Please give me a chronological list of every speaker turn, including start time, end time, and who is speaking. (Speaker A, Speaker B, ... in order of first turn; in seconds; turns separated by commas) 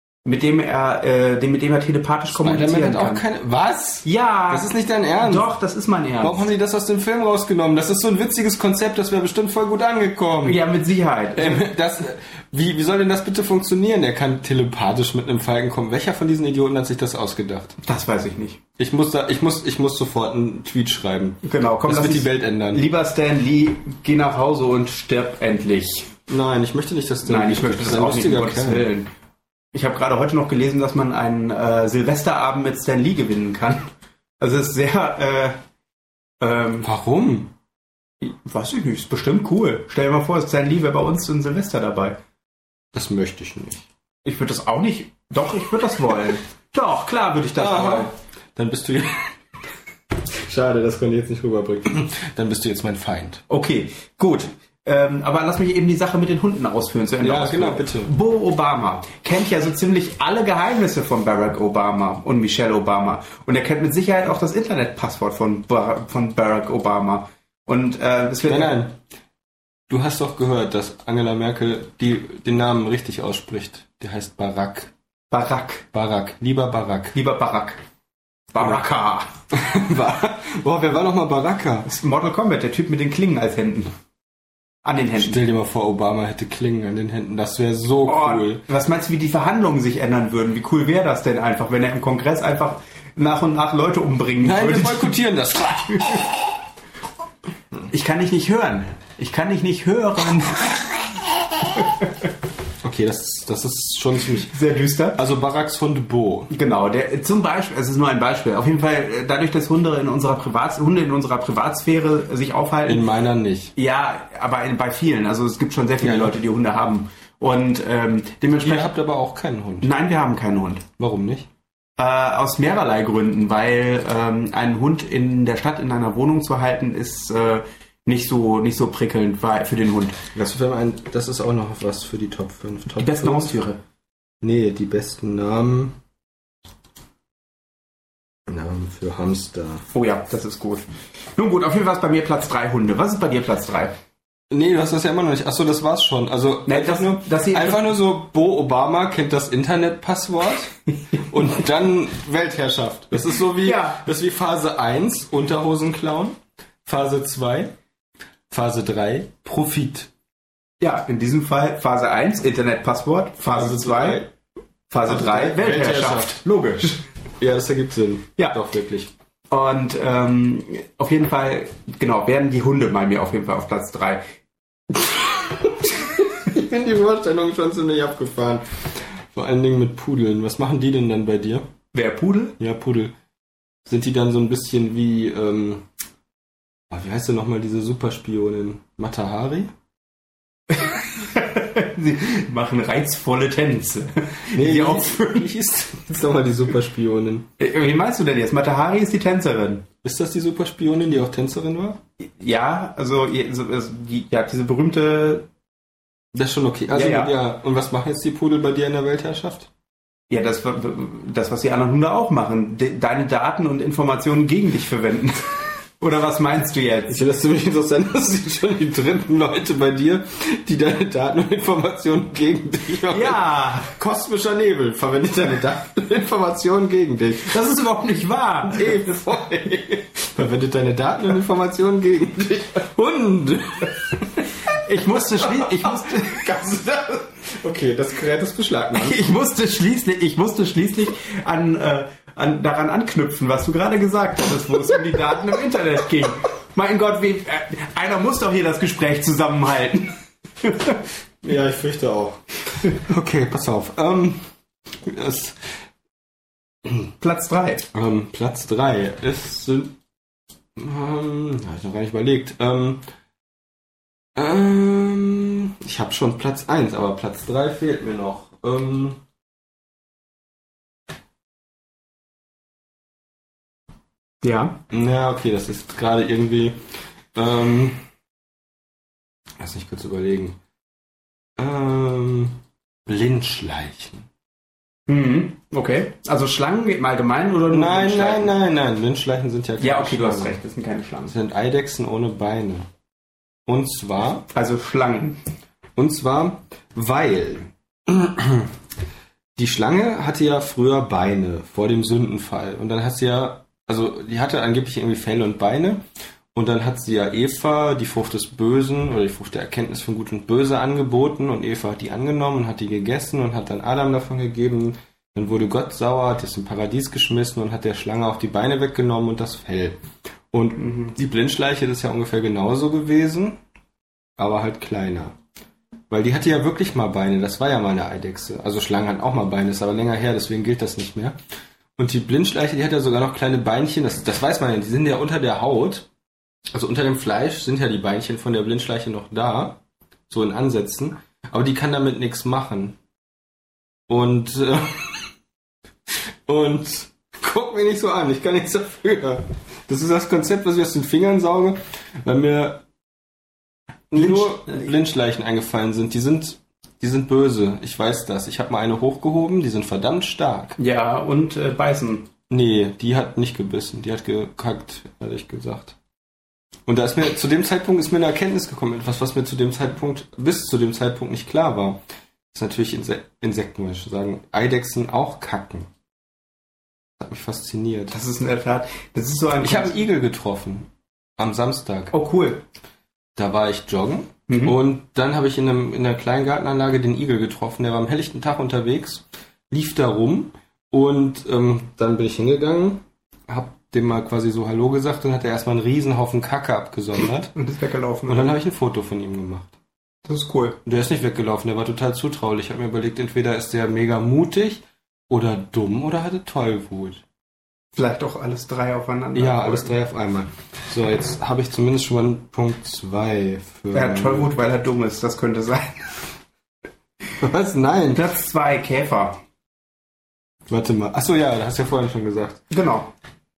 Speaker A: 0.2-3.2, Speaker B: 2.3-5.5, Speaker A: 4.0-6.5, Speaker B: 6.2-10.6, Speaker A: 10.4-11.7, Speaker B: 11.3-17.8, Speaker A: 17.8-18.6, Speaker B: 18.8-22.8, Speaker A: 21.4-26.1, Speaker B: 26.3-28.9, Speaker A: 27.2-29.1, Speaker A: 29.7-33.9, Speaker A: 34.4-35.6, Speaker A: 36.4-36.9, Speaker B: 36.8-37.5, Speaker A: 38.2-42.2, Speaker B: 42.9-43.8, Speaker A: 44.2-48.1, Speaker B: 47.5-49.3, Speaker B: 50.3-53.4, Speaker A: 53.5-68.8, Speaker B: 57.2-58.1, Speaker B: 68.4-69.0, Speaker B: 69.9-74.9, Speaker A: 75.3-75.8, Speaker B: 75.9-77.2, Speaker A: 77.1-77.8, Speaker A: 78.5-79.3, Speaker B: 79.5-81.9, Speaker A: 81.8-83.9, Speaker A: 84.8-85.4, Speaker B: 85.2-88.6, Speaker A: 88.0-95.2, Speaker B: 94.4-96.3, Speaker A: 95.9-96.2, Speaker A: 97.9-101.1, Speaker A: 101.8-102.1, Speaker B: 102.8-104.5, Speaker A: 104.5-105.2, Speaker B: 105.1-106.5, Speaker A: 106.5-113.0, Speaker B: 112.8-113.7, Speaker A: 113.8-118.9, Speaker B: 116.0-116.4, Speaker B: 118.6-119.9, Speaker A: 119.8-120.8, Speaker B: 121.0-121.5, Speaker A: 122.0-130.2, Speaker B: 130.3-133.6, Speaker A: 133.0-133.8, Speaker B: 134.4-136.0, Speaker B: 138.5-139.9, Speaker A: 139.9-140.8, Speaker A: 141.4-143.9, Speaker B: 144.5-157.7, Speaker A: 146.7-147.9, Speaker A: 153.6-154.0, Speaker B: 158.5-160.1, Speaker A: 160.8-164.2, Speaker B: 163.5-164.3, Speaker A: 164.9-167.0, Speaker B: 165.1-166.4, Speaker B: 167.4-169.1, Speaker A: 169.5-174.2, Speaker B: 175.0-181.7, Speaker A: 181.9-182.6, Speaker B: 182.6-183.1, Speaker B: 183.8-185.8, Speaker B: 186.9-189.7, Speaker A: 190.7-195.5, Speaker B: 194.5-197.5, Speaker A: 197.6-199.8, Speaker B: 200.0-202.0, Speaker A: 202.2-205.5, Speaker B: 206.3-209.7, Speaker A: 206.9-207.3, Speaker A: 210.3-217.2, Speaker B: 217.1-227.6, Speaker A: 223.1-223.9, Speaker A: 227.4-229.1, Speaker B: 228.6-239.2, Speaker A: 234.7-236.4, Speaker A: 238.9-251.0, Speaker B: 251.4-254.4, Speaker B: 255.0-255.8, Speaker B: 256.8-257.1, Speaker A: 257.2-257.9, Speaker B: 257.9-259.9, Speaker B: 260.8-263.0, Speaker B: 264.3-269.2, Speaker A: 274.4-274.8, Speaker B: 274.9-276.8, Speaker B: 277.3-278.0, Speaker B: 279.6-280.6, Speaker B: 281.6-284.3, Speaker A: 285.1-288.5, Speaker B: 287.7-290.6, Speaker A: 289.8-291.3, Speaker B: 291.3-292.9, Speaker B: 293.6-294.4, Speaker A: 294.5-295.4, Speaker B: 295.9-298.7, Speaker B: 299.6-306.0, Speaker B: 306.5-320.0, Speaker B: 320.5-323.6, Speaker A: 320.8-321.1, Speaker B: 324.4-325.4, Speaker B: 326.1-331.4, Speaker B: 332.0-336.1, Speaker B: 336.7-339.8, Speaker B: 340.3-343.0, Speaker B: 344.1-345.3, Speaker B: 346.1-352.8, Speaker B: 354.1-360.8, Speaker A: 354.1-354.9, Speaker A: 360.8-362.3, Speaker B: 362.5-366.0, Speaker B: 366.9-372.0, Speaker B: 372.5-375.9, Speaker B: 377.2-378.1, Speaker A: 378.1-380.0, Speaker B: 379.6-382.1, Speaker A: 382.1-382.6, Speaker B: 383.4-397.5, Speaker A: 384.5-384.8, Speaker A: 397.5-398.5, Speaker B: 398.3-399.7, Speaker A: 400.2-400.8, Speaker B: 400.9-407.2, Speaker A: 407.9-409.9, Speaker B: 409.3-414.5, Speaker A: 413.9-416.1, Speaker B: 417.4-418.2, Speaker A: 418.1-419.4, Speaker B: 420.7-422.6, Speaker A: 422.7-423.1